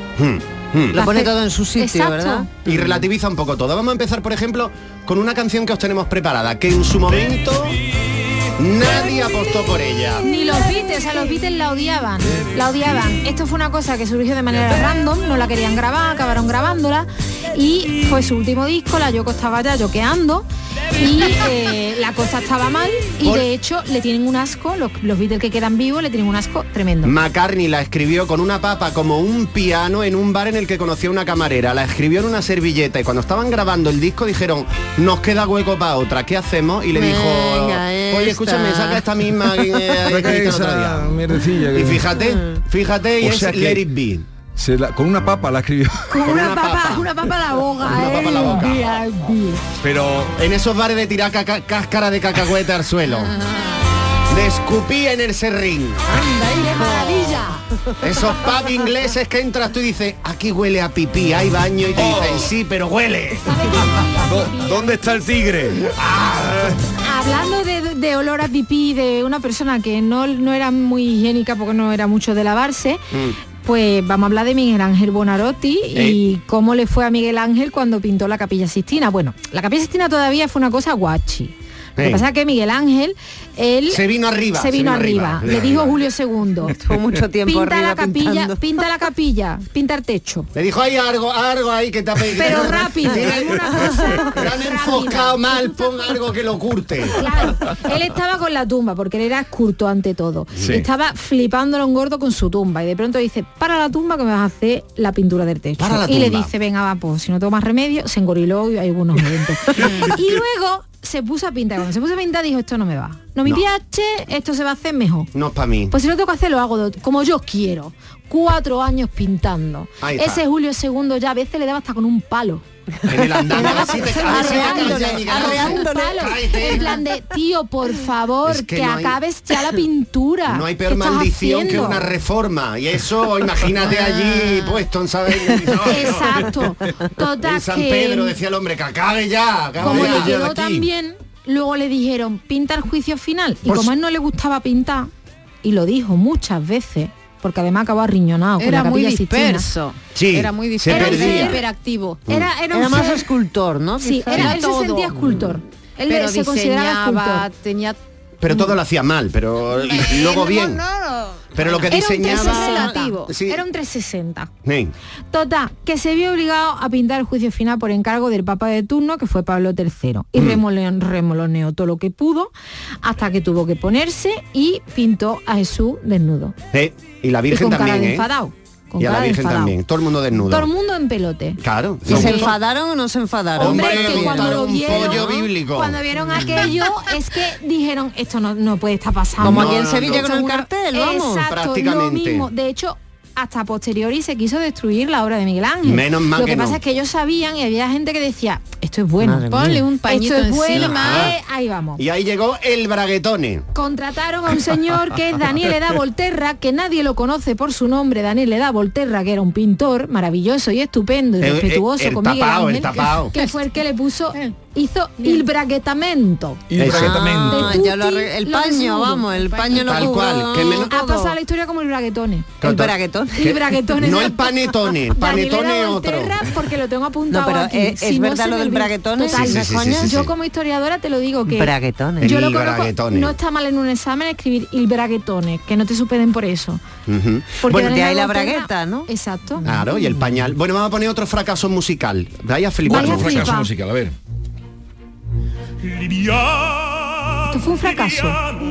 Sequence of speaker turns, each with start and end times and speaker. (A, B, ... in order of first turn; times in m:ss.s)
0:00.2-0:01.0 A
0:00.9-0:02.5 B
0:00.9-0:02.5 C
0:02.6-0:07.8 A
0:08.6-0:10.2 A
0:09.3-0:09.6 C
0:10.2-0:27.2 C
0:27.0-0:41.2 A
0:36.9-0:39.0 B
0:40.0-0:42.1 D
0:41.7-0:44.2 A
0:42.2-0:42.6 B
0:43.2-0:43.8 D
0:44.5-0:46.2 D
0:46.1-0:49.6 C
0:46.2-0:47.1 A
0:47.8-0:48.8 A
0:49.8-0:50.4 D
0:50.3-0:53.3 A
0:54.3-0:56.0 A
0:56.1-0:57.4 B
0:56.1-0:57.6 C
0:58.0-1:03.6 A
1:01.9-1:02.5 D
1:02.0-1:02.5 C
1:03.3-1:05.2 C
1:04.1-1:05.9 D
1:06.0-1:06.7 A
1:07.0-1:26.8 C
1:22.0-1:22.2 A
1:23.9-1:25.9 A
1:26.8-1:28.6 B
1:27.4-1:30.5 C
1:30.5-1:33.5 A
1:32.2-1:36.2 C
1:34.4-1:37.2 A
1:37.1-1:55.3 C
1:45.8-1:46.5 A
1:55.3-1:55.9 A
1:55.9-2:02.6 C
2:00.0-2:00.4 A
2:03.1-2:06.8 A
2:03.2-2:06.8 B
2:03.2-2:12.1 C
2:08.4-2:09.1 A
2:10.5-2:16.3 A
2:15.8-2:18.4 C
2:17.4-2:20.8 A
2:19.8-2:25.1 C
2:23.6-2:23.9 A
2:25.6-2:29.7 C
2:28.6-2:32.2 E
2:30.1-2:31.6 A
2:30.9-2:31.6 C
2:32.3-2:33.3 C
2:32.7-2:34.6 B
2:34.0-2:37.5 C
2:34.3-2:35.3 E
2:36.1-2:38.0 E
2:38.4-2:40.8 A
2:39.7-2:43.1 E
2:41.5-2:43.6 A
2:41.9-2:44.5 C
2:44.6-2:44.9 A
2:45.3-2:56.5 C
2:56.7-2:58.2 A
2:57.5-2:59.8 C
2:59.0-3:00.7 A
3:00.3-3:02.5 C
3:01.6-3:02.5 A
3:02.0-3:05.0 B
3:03.6-3:22.0 C
3:03.6-3:06.0 A
3:06.3-3:06.7 B
3:09.4-3:11.5 B
3:09.4-3:10.2 A
3:11.4-3:12.4 A
3:15.8-3:16.8 A
3:19.2-3:19.8 B
3:19.4-3:21.3 E
3:20.8-3:21.3 A
3:22.0-3:23.6 A
3:23.7-3:42.6 C
3:31.4-3:33.3 A
3:36.7-3:37.8 D
3:36.8-3:37.2 A
3:36.9-3:41.3 B
3:38.7-3:40.1 E
3:39.8-3:41.0 A
3:42.6-3:42.9 A
3:42.6-3:43.6 B
3:43.4-3:56.8 C
3:44.0-3:46.4 A
3:47.3-3:50.2 B
3:49.3-3:50.3 A
3:51.5-3:52.3 B
3:52.2-3:53.3 A
3:57.1-3:57.9 A
3:57.6-3:59.6 C
3:57.7-3:59.1 B
3:59.6-4:00.3 B
3:59.6-4:03.5 A
4:02.8-4:03.7 C
4:02.8-4:04.1 D
4:07.5-4:08.4 C